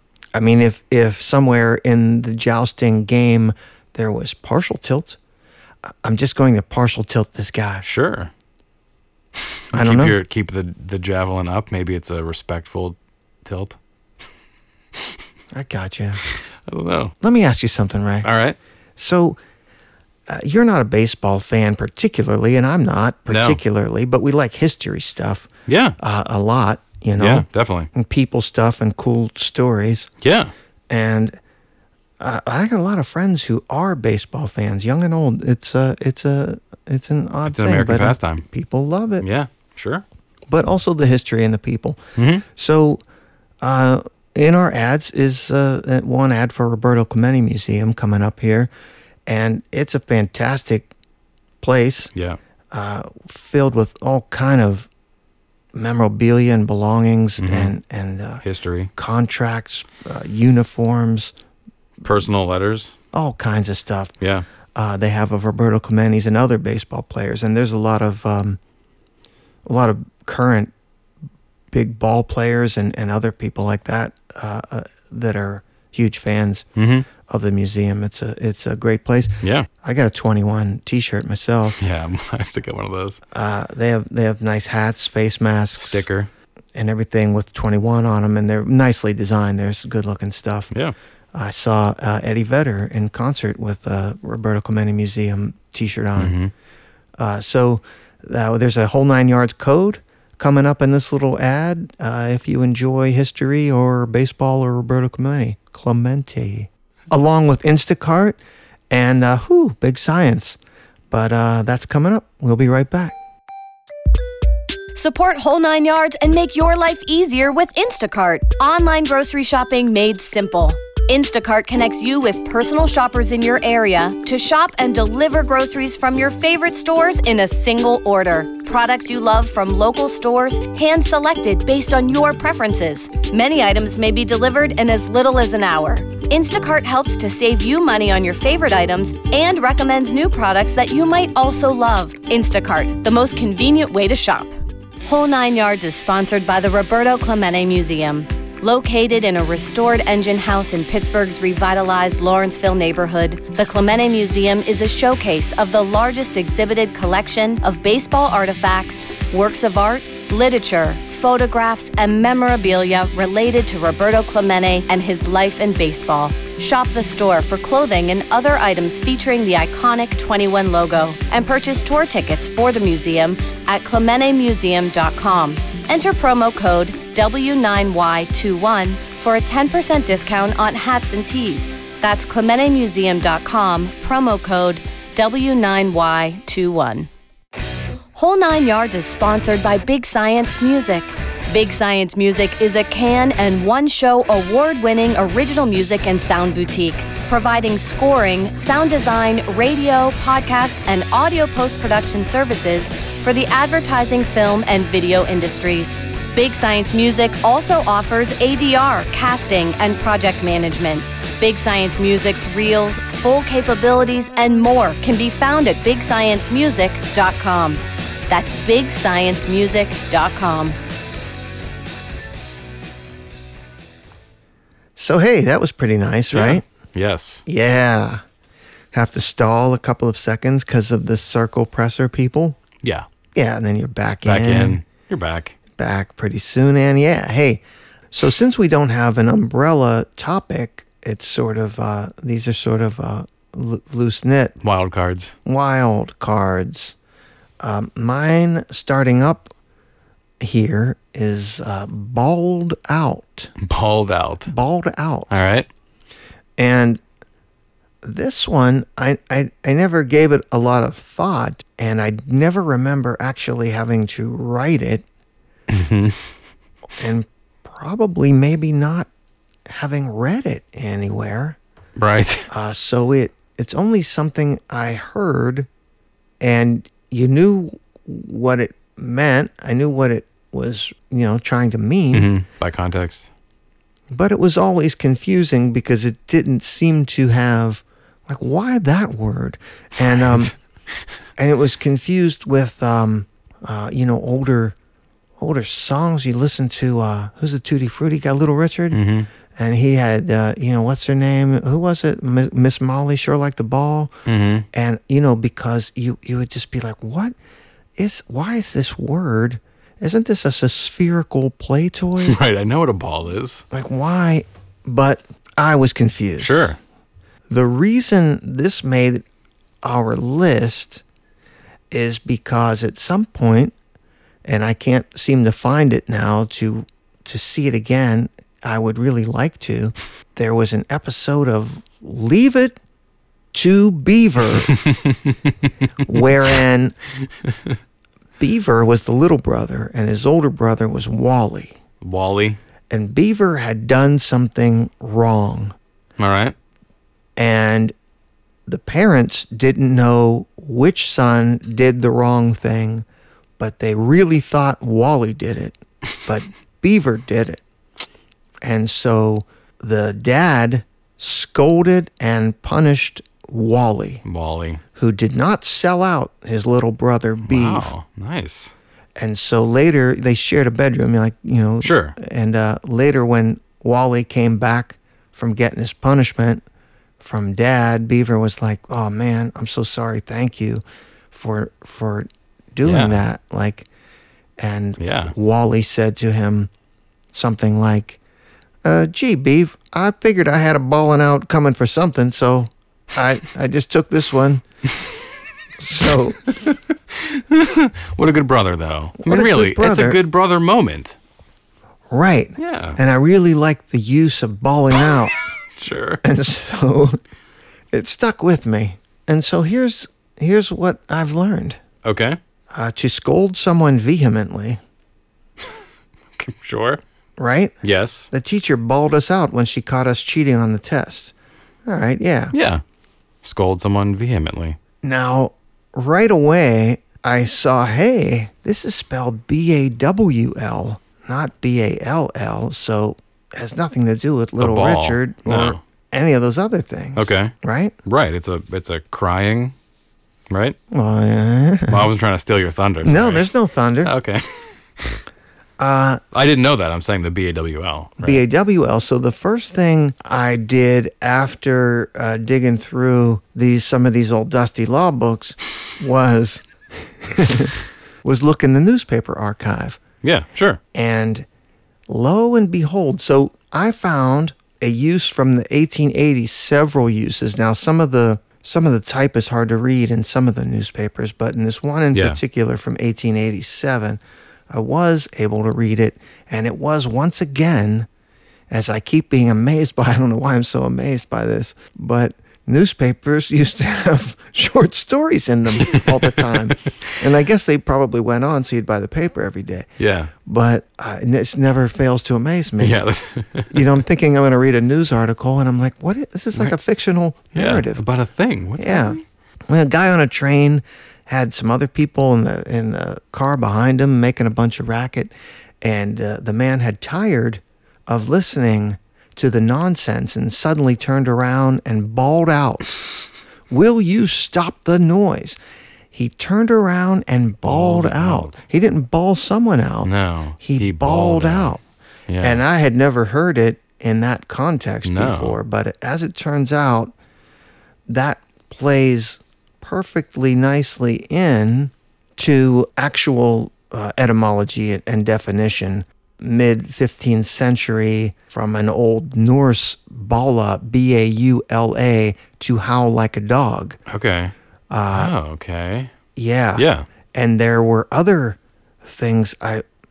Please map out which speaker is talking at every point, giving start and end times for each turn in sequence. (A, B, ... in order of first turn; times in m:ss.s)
0:00.4-0:05.2 A
0:05.8-0:07.8 A
0:07.8-0:08.3 B
0:09.7-0:13.8 B
0:09.7-0:10.2 A
0:15.0-0:15.2 B
0:15.5-0:16.2 A
0:16.2-0:17.2 B
0:17.2-0:18.3 A
0:18.2-0:18.6 B
0:19.0-0:19.4 A
0:20.3-0:30.1 A
0:23.3-0:23.6 B
0:25.7-0:26.0 B
0:27.2-0:27.9 B
0:30.2-0:30.5 B
0:30.9-0:31.4 A
0:32.2-0:39.3 A
0:37.5-0:38.4 B
0:39.2-0:40.0 B
0:40.5-0:43.0 A
0:42.2-0:42.4 B
0:43.6-0:48.7 A
0:49.3-0:50.9 A
0:51.6-0:52.1 A
0:52.1-0:52.4 B
0:52.7-0:54.9 A
0:55.7-0:58.4 A
0:57.4-0:57.8 B
0:58.4-0:58.9 B
0:59.0-1:01.3 A
1:02.0-1:03.0 B
1:03.1-1:04.1 A
1:04.8-1:08.6 A
1:09.7-1:10.7 A
1:11.7-1:16.7 A
1:16.8-1:17.1 B
1:17.3-1:21.8 A
1:19.4-1:19.7 B
1:21.8-1:23.2 B
1:23.3-1:26.1 A
1:25.8-1:26.3 B
1:26.8-1:30.7 A
1:31.3-1:36.4 A
1:36.2-1:36.5 B
1:37.2-1:48.4 A
1:48.9-1:50.6 A
1:51.1-1:53.2 A
1:55.0-2:24.5 C
2:25.0-3:07.1 C
3:08.2-3:40.8 C
3:45.0-3:46.6 A
3:46.3-3:47.5 B
3:47.5-3:48.2 A
3:48.9-3:52.6 A
3:53.4-3:54.8 A
3:54.2-3:55.6 B
3:55.8-4:04.6 A
4:04.6-4:05.4 B
4:05.4-4:07.0 A
4:07.6-4:09.5 A
4:10.4-4:13.5 A
4:13.6-4:14.5 B
4:14.5-4:15.4 A
4:15.3-4:15.7 B
4:16.6-4:17.0 A
4:18.0-4:25.0 A
4:25.7-4:26.3 B
4:27.0-4:29.1 A
4:29.7-4:31.6 A
4:32.0-4:32.5 B
4:32.5-4:35.7 A
4:36.4-4:42.3 A
4:42.1-4:43.3 B
4:44.1-4:50.5 A
4:50.1-4:51.0 B
4:51.4-4:54.8 A
4:55.4-4:59.0 A
4:58.9-4:59.3 B
4:59.6-5:04.1 A
5:04.3-5:04.7 B
5:04.7-5:07.3 A
5:08.0-5:12.4 A
5:12.2-5:13.7 B
5:13.7-5:16.7 A
5:16.4-5:16.8 B
5:17.5-5:19.2 A
5:19.8-5:21.0 A
5:21.9-5:23.7 A
5:24.4-5:32.8 A
5:33.5-5:34.8 A
5:34.7-5:36.2 B
5:36.0-5:37.0 A
5:37.4-5:37.8 B
5:38.4-5:41.8 A
5:42.0-5:42.6 B
5:42.9-5:45.8 A
5:46.2-5:46.6 B
5:47.4-5:47.9 A
5:48.7-5:53.0 A
5:53.6-5:57.6 A
5:58.6-6:04.2 A
6:04.2-6:04.8 B
6:05.0-6:07.9 A
6:07.4-6:08.8 B
6:09.2-6:16.6 A
6:11.8-6:12.2 B
6:17.2-6:23.9 A
6:22.8-6:23.3 B
6:24.6-6:26.7 A
6:25.0-6:25.4 B
6:27.3-6:28.2 A
6:28.8-6:34.6 A
6:35.8-6:36.4 A
6:36.4-6:41.2 B
6:39.2-6:40.2 A
6:42.1-6:45.4 A
6:42.6-6:43.0 B
6:44.9-6:46.2 B
6:46.2-6:47.2 A
6:47.9-6:51.8 A
6:52.0-6:52.4 B
6:52.7-6:54.8 A
6:56.4-6:57.0 B
6:57.4-6:57.8 A
6:57.8-6:58.3 B
6:58.3-7:01.3 A
7:01.9-7:02.5 A
7:02.5-7:02.8 B
7:03.4-7:04.8 B
7:05.0-7:17.9 A
7:14.6-7:15.8 B
7:17.2-7:19.8 B
7:20.5-7:20.8 B
7:20.9-7:22.1 A
7:21.9-7:23.5 B
7:23.0-7:24.1 A
7:24.0-7:25.2 B
7:25.8-7:26.2 A
7:26.3-7:28.4 B
7:28.2-7:40.0 A
7:40.2-7:40.8 B
7:40.9-7:41.5 A
7:42.1-7:58.1 A
7:52.1-7:52.4 B
7:58.7-8:09.9 A
8:05.8-8:07.2 B
8:10.0-8:10.3 B
8:10.4-8:13.0 A
8:12.8-8:14.0 B
8:13.7-8:18.0 A
8:17.6-8:19.2 B
8:18.8-8:19.2 A
8:19.7-8:32.9 A
8:33.7-8:35.6 A
8:36.1-8:41.8 A
8:37.6-8:38.6 B
8:40.0-8:42.6 B
8:42.4-8:47.1 A
8:45.0-8:45.6 B
8:48.1-9:04.0 A
9:04.1-9:04.5 B
9:04.9-9:05.3 A
9:05.1-9:06.1 B
9:06.4-9:09.8 A
9:06.8-9:07.1 B